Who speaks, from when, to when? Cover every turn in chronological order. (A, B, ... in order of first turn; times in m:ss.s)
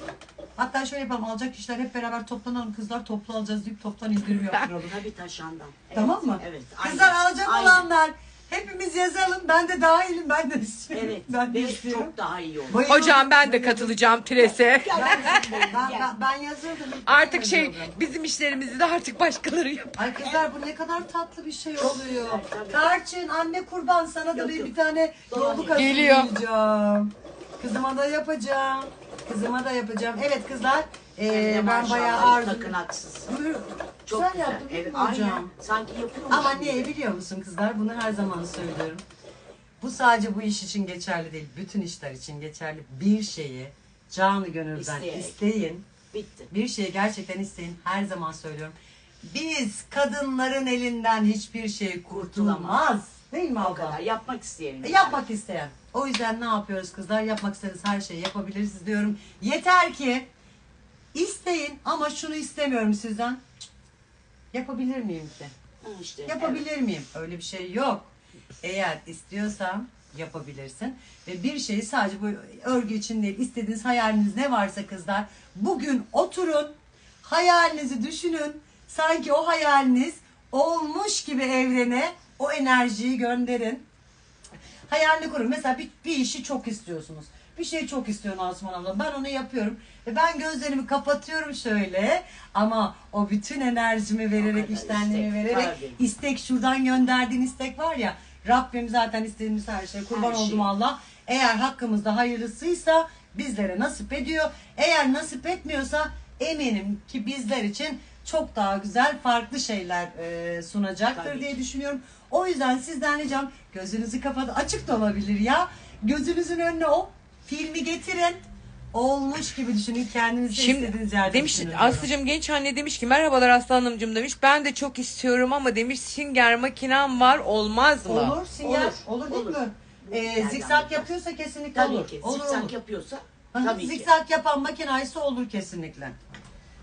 0:00.6-0:04.9 A
0:04.6-0:07.9 B
0:05.9-0:12.1 A
0:10.9-0:12.8 B
0:12.7-0:14.0 A
0:12.9-0:15.7 C
0:14.7-0:16.2 B
0:14.9-0:17.9 A
0:17.0-0:20.0 C
0:20.0-0:32.8 A
0:20.2-0:20.5 B
0:21.8-0:22.9 B
0:24.3-0:24.7 B
0:25.3-0:25.9 B
0:25.8-0:26.3 C
0:31.3-0:33.3 B
0:33.3-0:35.5 A
0:34.0-0:36.9 B
0:36.3-0:39.0 A
0:39.8-0:45.8 A
0:44.8-0:45.4 B
0:46.1-0:46.5 B
0:46.5-0:54.0 A
0:52.1-0:52.8 B
0:53.6-0:55.2 B
0:54.8-1:00.3 A
1:01.1-1:03.6 A
1:04.5-1:05.5 A
1:05.8-1:06.6 B
1:06.3-1:08.1 A
1:08.6-1:23.9 A
1:24.9-1:58.4 A
1:34.4-1:36.0 B
1:40.1-1:40.7 B
1:51.1-1:51.6 B
1:58.9-2:02.1 A
2:00.5-2:08.4 C
2:08.0-2:12.7 A
2:08.6-2:11.1 B
2:11.7-2:14.1 B
2:13.5-2:16.2 A